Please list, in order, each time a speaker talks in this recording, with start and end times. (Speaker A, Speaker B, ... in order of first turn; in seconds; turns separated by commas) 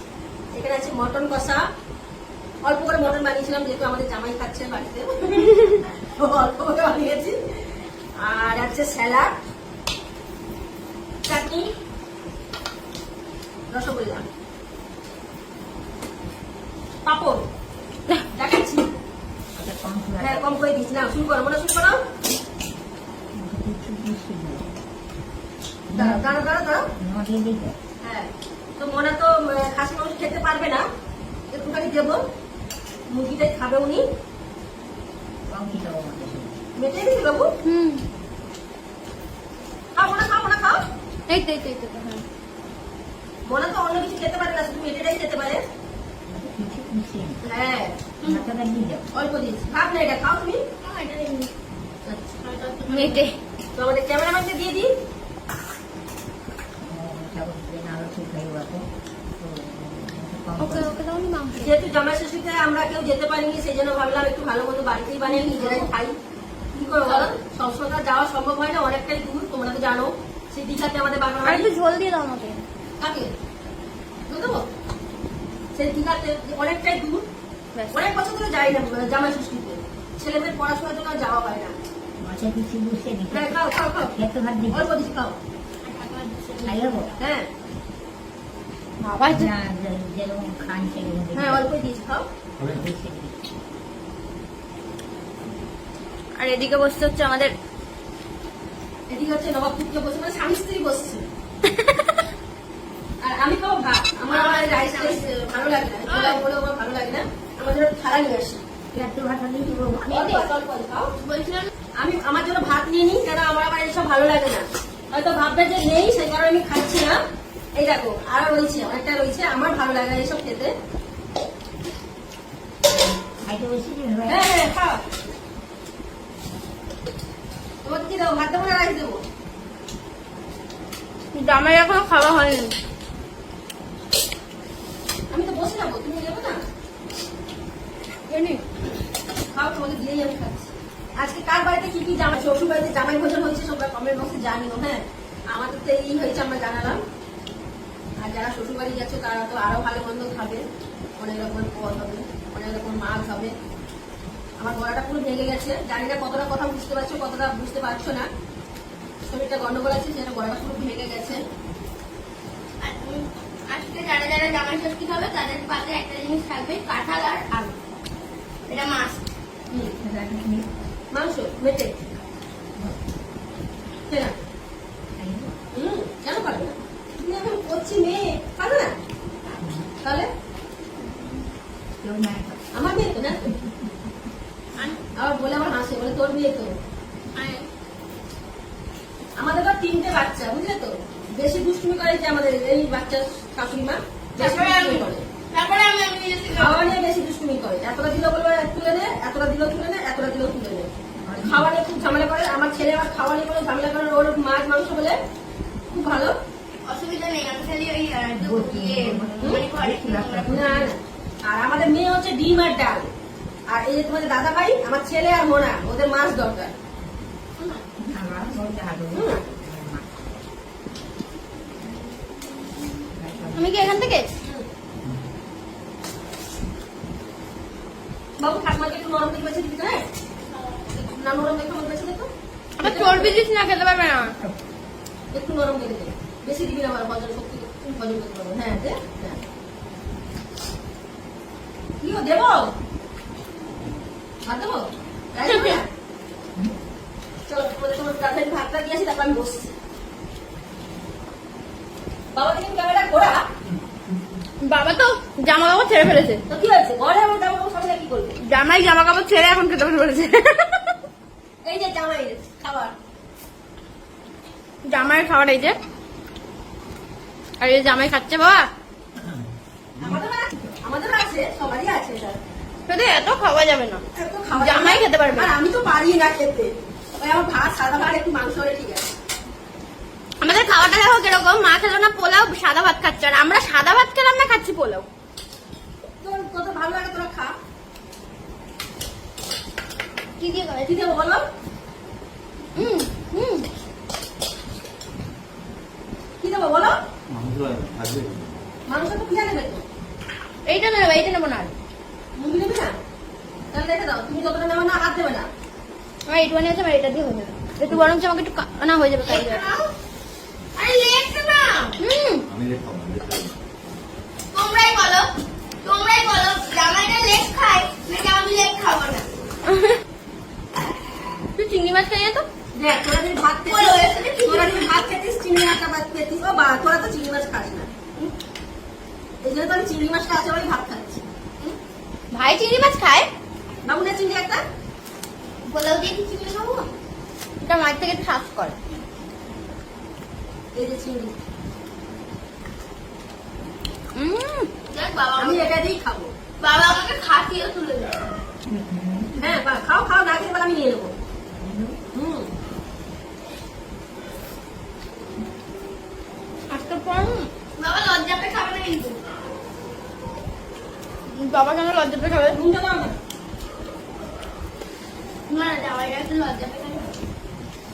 Speaker A: 0.5-1.7, Speaker A: 2.6-7.4, Speaker A: 8.2-9.3, Speaker A: 11.3-11.7, Speaker A: 13.7-14.2, Speaker A: 17.1-17.5, Speaker A: 18.3-18.9, Speaker B: 19.6-20.7, Speaker A: 20.2-22.0, Speaker B: 23.3-24.8, Speaker B: 25.9-26.4, Speaker A: 25.9-26.9, Speaker B: 26.9-27.8, Speaker A: 28.0-30.8, Speaker A: 31.5-32.2, Speaker A: 33.1-34.0, Speaker B: 35.5-36.5, Speaker A: 36.8-37.5, Speaker C: 37.6-38.0, Speaker A: 40.0-40.8, Speaker C: 41.3-42.2, Speaker A: 43.5-45.6, Speaker B: 46.3-47.4, Speaker A: 47.4-47.9, Speaker B: 48.2-49.1, Speaker A: 49.1-50.6, Speaker C: 50.8-51.5, Speaker D: 50.9-51.5, Speaker A: 52.0-53.2, Speaker D: 52.4-53.4, Speaker A: 53.8-54.9, Speaker B: 56.8-60.9, Speaker C: 60.6-61.7, Speaker A: 61.5-66.2, Speaker C: 65.4-65.8, Speaker A: 66.7-71.7, Speaker C: 71.5-72.6, Speaker A: 73.0-73.3, Speaker A: 74.3-74.7, Speaker A: 75.8-77.2, Speaker A: 77.9-81.8, Speaker B: 82.2-84.9, Speaker A: 83.3-84.1, Speaker A: 84.7-85.3, Speaker D: 85.8-87.1, Speaker B: 86.6-87.1, Speaker A: 87.2-87.5, Speaker C: 89.0-89.5, Speaker B: 89.2-91.7, Speaker A: 91.3-92.2, Speaker B: 92.6-93.4, Speaker C: 96.4-97.5, Speaker A: 99.1-101.3, Speaker A: 103.2-108.6, Speaker D: 104.3-105.3, Speaker D: 106.1-106.4, Speaker B: 108.9-110.5, Speaker A: 110.1-111.1, Speaker D: 111.2-111.7, Speaker A: 112.0-117.2, Speaker A: 117.8-120.7, Speaker B: 122.9-124.5, Speaker A: 124.2-125.0, Speaker A: 127.8-129.2, Speaker C: 131.3-132.8, Speaker A: 135.3-136.6, Speaker C: 138.3-138.6, Speaker A: 139.5-147.0, Speaker A: 148.2-150.7, Speaker A: 151.2-153.5, Speaker A: 154.6-158.3, Speaker A: 159.2-161.4, Speaker D: 162.8-167.7, Speaker D: 168.7-169.2, Speaker B: 170.0-170.7, Speaker A: 171.1-172.1, Speaker A: 174.1-174.3, Speaker B: 175.2-175.6, Speaker A: 175.7-178.9, Speaker B: 179.6-179.9, Speaker A: 180.0-180.3, Speaker B: 182.0-182.6, Speaker A: 182.7-183.5, Speaker B: 183.4-183.9, Speaker A: 185.2-186.8, Speaker D: 187.3-187.7, Speaker A: 189.4-195.2, Speaker D: 194.4-196.9, Speaker A: 196.5-205.2, Speaker B: 201.2-201.7, Speaker A: 205.9-206.3, Speaker D: 206.8-210.7, Speaker B: 208.4-210.9, Speaker A: 210.5-213.1, Speaker A: 213.7-216.7, Speaker B: 218.0-220.4, Speaker A: 219.1-219.4, Speaker B: 223.1-224.1, Speaker C: 223.5-224.3, Speaker A: 228.4-230.0, Speaker A: 230.9-232.3, Speaker C: 232.8-234.3, Speaker A: 232.8-233.4, Speaker A: 235.3-239.4, Speaker A: 242.0-242.7, Speaker A: 244.4-245.9, Speaker C: 245.5-245.8, Speaker A: 247.5-249.7, Speaker A: 252.3-253.5, Speaker C: 254.6-256.4, Speaker A: 256.5-258.4, Speaker C: 258.4-261.0, Speaker A: 261.6-262.9, Speaker C: 264.9-265.8, Speaker C: 267.6-268.7, Speaker A: 270.0-272.4, Speaker C: 272.9-275.5, Speaker A: 274.1-279.1, Speaker C: 280.4-285.1, Speaker A: 286.2-287.6, Speaker C: 290.4-291.1, Speaker A: 290.9-291.5, Speaker C: 292.8-293.7, Speaker A: 296.4-297.0, Speaker E: 297.3-298.6, Speaker A: 298.9-299.9, Speaker C: 300.7-301.7, Speaker D: 300.7-301.7, Speaker A: 302.4-302.9, Speaker A: 303.7-305.5, Speaker C: 306.3-309.6, Speaker D: 309.2-309.9, Speaker D: 310.8-312.0, Speaker C: 312.0-312.5, Speaker E: 312.5-313.6, Speaker D: 314.5-315.3, Speaker D: 315.8-319.3, Speaker C: 321.6-322.5, Speaker A: 322.7-327.9, Speaker D: 323.7-324.9, Speaker A: 329.4-331.2, Speaker C: 332.3-333.3, Speaker A: 333.9-334.6, Speaker D: 335.7-336.9, Speaker C: 337.6-338.8, Speaker A: 340.7-341.4, Speaker C: 344.1-344.7, Speaker D: 344.9-345.7, Speaker A: 345.4-346.3, Speaker D: 346.6-348.3, Speaker B: 348.7-349.6, Speaker A: 349.4-351.1, Speaker B: 351.6-352.0, Speaker A: 352.1-352.5, Speaker C: 356.7-357.5, Speaker D: 357.8-359.2, Speaker C: 361.3-362.6, Speaker A: 362.5-363.1, Speaker D: 365.5-367.2